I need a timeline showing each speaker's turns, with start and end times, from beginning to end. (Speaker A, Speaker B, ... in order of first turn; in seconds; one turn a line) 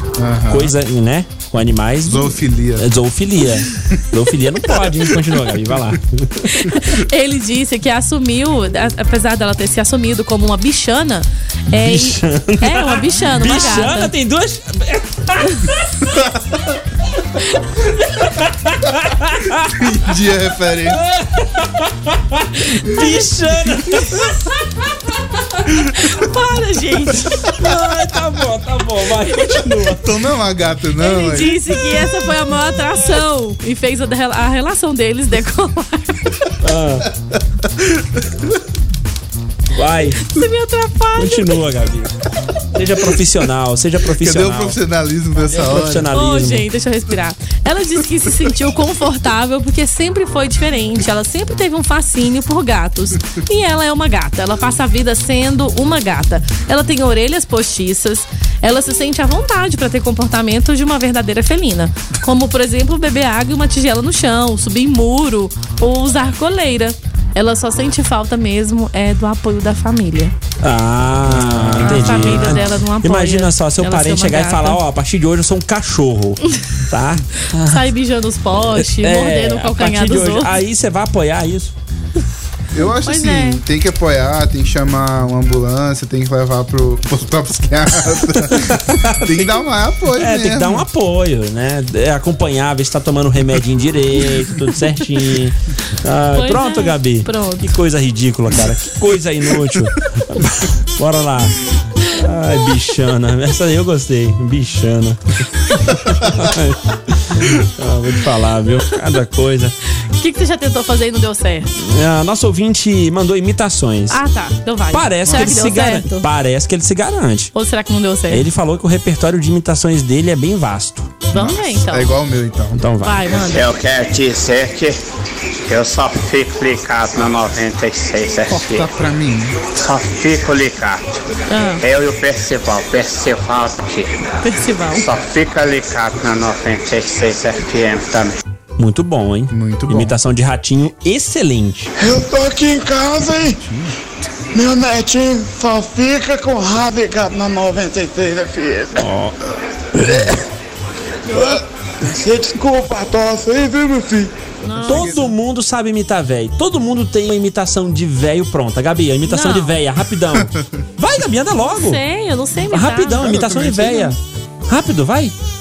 Speaker A: 0.2-0.7
Speaker B: 0.5-6.8
Speaker A: 2.0-2.9
Speaker C: 6.6-14.1
Speaker B: 11.7-16.1
Speaker B: 18.1-19.9
Speaker A: 19.8-21.0
Speaker B: 20.9-24.5
Speaker C: 22.8-23.1
Speaker C: 25.9-27.5
Speaker B: 27.4-30.1
Speaker A: 29.9-31.6
Speaker C: 31.0-36.3
Speaker B: 36.6-37.1
Speaker B: 39.7-40.2
Speaker C: 40.2-41.5
Speaker B: 41.2-42.1
Speaker B: 42.7-44.8
Speaker A: 44.2-46.1
Speaker B: 45.5-46.7
Speaker C: 46.1-70.3
Speaker B: 70.6-77.8
Speaker A: 71.3-72.6
Speaker C: 71.8-74.8
Speaker C: 77.6-80.5
Speaker B: 78.7-81.7
Speaker A: 82.7-90.8
Speaker C: 83.0-83.6
Speaker B: 88.5-89.4
Speaker B: 90.2-109.7
Speaker C: 96.3-97.6
Speaker C: 110.2-111.7
Speaker B: 111.8-114.2
Speaker C: 114.1-116.2
Speaker B: 114.9-117.5
Speaker C: 117.5-118.4
Speaker B: 118.3-121.2
Speaker C: 121.3-122.1
Speaker A: 121.3-122.8
Speaker B: 122.7-123.3
Speaker C: 123.0-123.7
Speaker D: 123.5-125.0
Speaker D: 125.7-128.9
Speaker A: 128.5-129.6
Speaker D: 129.7-131.1
Speaker C: 131.5-131.8
Speaker D: 131.8-134.3
Speaker C: 134.4-135.1
Speaker D: 134.9-138.3
Speaker B: 138.8-141.9
Speaker A: 139.5-140.2
Speaker E: 141.9-143.6
Speaker A: 143.6-143.9
Speaker E: 144.5-149.1
Speaker B: 149.0-149.3
Speaker E: 149.9-150.4
Speaker E: 151.3-154.3
Speaker C: 154.6-155.3
Speaker A: 154.8-155.3
Speaker B: 154.8-162.0
Speaker C: 159.2-159.8
Speaker C: 161.6-163.3
Speaker B: 162.7-165.3
Speaker A: 163.2-164.2